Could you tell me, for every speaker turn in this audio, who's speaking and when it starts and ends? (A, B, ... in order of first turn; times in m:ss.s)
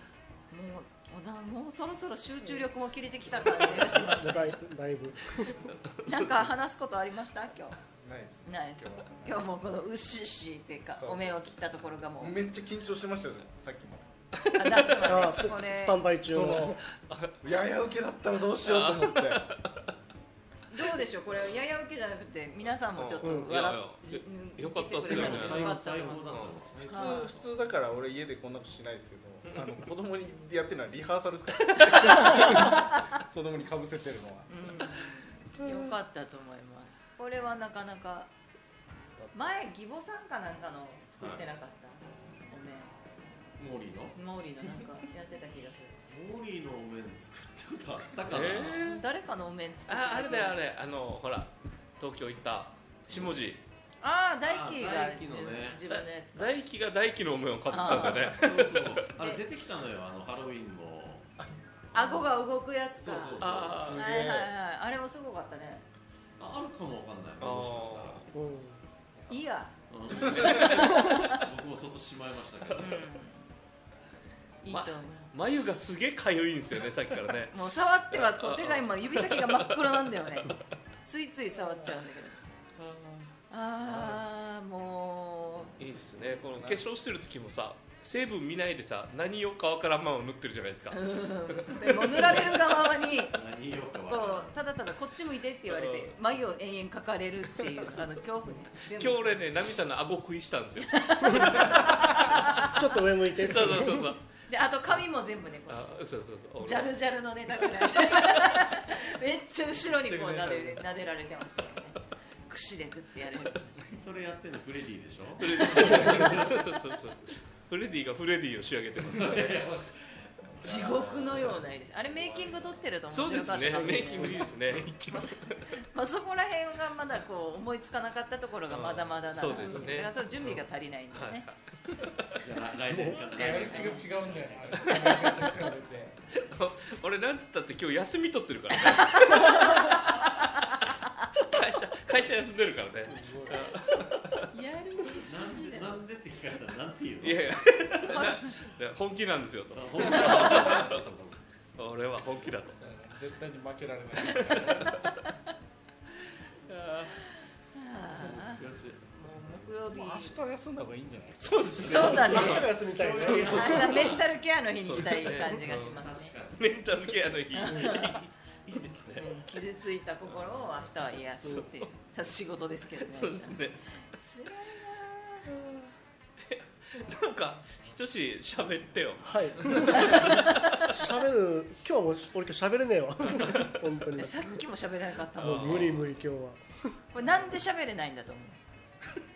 0:00.5-0:04.6 A
0:04.1-0:05.7 B
0:05.9-0:06.5 C
0:06.1-0:07.8 A
0:08.0-0:09.4 D
0:08.5-0:12.4 A
0:10.9-0:11.6 D
0:12.2-0:14.1 D
0:14.4-0:15.0 C
0:14.5-0:16.1 A
0:15.0-0:16.8 B
0:16.3-0:16.8 D
0:16.5-0:17.4 C
0:17.4-0:19.5 D
0:18.6-0:19.7 C
0:20.7-0:27.3 A
0:23.0-0:25.7 C
0:25.0-0:27.5 E
0:26.8-0:34.5 D
0:34.5-0:38.3 A
0:39.3-0:43.0 A
0:41.2-0:41.5 E
0:43.6-0:44.2 E
0:44.2-0:46.0 A
0:46.1-0:48.9 E
0:48.3-0:49.0 C
0:48.8-0:50.6 A
0:49.9-0:53.6 C
0:54.0-0:56.6 A
0:54.4-0:55.8 E
0:55.9-0:59.0 C
0:57.7-0:58.4 A
0:58.3-1:01.3 E
1:01.9-1:05.8 A
1:02.0-1:02.3 E
1:03.0-1:04.0 E
1:03.4-1:04.0 C
1:03.8-1:04.5 D
1:06.4-1:08.3 E
1:07.4-1:08.3 C
1:08.3-1:08.8 B
1:09.3-1:11.4 A
1:09.9-1:13.0 E
1:10.6-1:11.0 C
1:10.9-1:11.2 B
1:12.8-1:13.5 A
1:14.6-1:15.3 A
1:14.7-1:19.9 C
1:17.5-1:22.4 A
1:22.8-1:23.2 C
1:23.5-1:25.7 A
1:25.8-1:32.6 C
1:26.6-1:26.8 D
1:30.9-1:33.4 A
1:33.3-1:34.6 E
1:34.1-1:39.5 A
1:35.7-1:36.2 C
1:37.6-1:38.1 C
1:38.9-1:42.7 C
1:41.0-1:42.9 A
1:41.3-1:41.7 B
1:42.6-1:44.1 B
1:43.4-1:44.2 C
1:43.5-1:45.9 A
1:45.7-1:46.9 C
1:46.6-1:53.8 A
1:49.9-1:50.8 D
1:53.8-1:56.7 E
1:55.4-1:59.6 C
1:55.6-1:56.5 A
1:59.0-2:01.6 E
2:00.6-2:11.5 A
2:02.2-2:02.8 E
2:03.1-2:05.7 C
2:08.7-2:12.5 C
2:12.4-2:15.0 E
2:13.1-2:16.3 D
2:13.5-2:14.0 A
2:14.8-2:15.4 C
2:16.4-2:20.0 C
2:18.9-2:19.9 A
2:21.4-2:24.5 C
2:22.9-2:23.8 D
2:24.5-2:26.0 A
2:25.2-2:28.3 E
2:27.2-2:31.1 C
2:28.1-2:28.4 A
2:29.7-2:31.4 E
2:31.8-2:33.0 C
2:32.8-2:35.1 D
2:34.2-2:35.1 C
2:36.6-2:37.2 C
2:37.7-2:40.4 A
2:38.1-2:39.0 E
2:39.9-2:42.4 D
2:41.4-2:42.7 C
2:41.8-2:44.3 E
2:41.8-2:42.7 A
2:42.0-2:44.1 B
2:43.2-2:43.9 C
2:43.4-2:46.4 A
2:44.8-2:46.0 C
2:45.8-2:46.7 E
2:46.6-2:49.4 C
2:47.5-2:48.2 A
2:49.2-2:55.5 A
2:51.4-2:51.9 C
2:53.0-2:53.8 C
2:55.5-2:55.9 C
2:56.4-3:01.0 C
2:59.2-3:04.4 B
2:59.9-3:00.8 A
3:03.3-3:03.7 C
3:04.2-3:06.0 A
3:05.4-3:06.1 C
3:05.4-3:07.0 B
3:07.1-3:08.6 A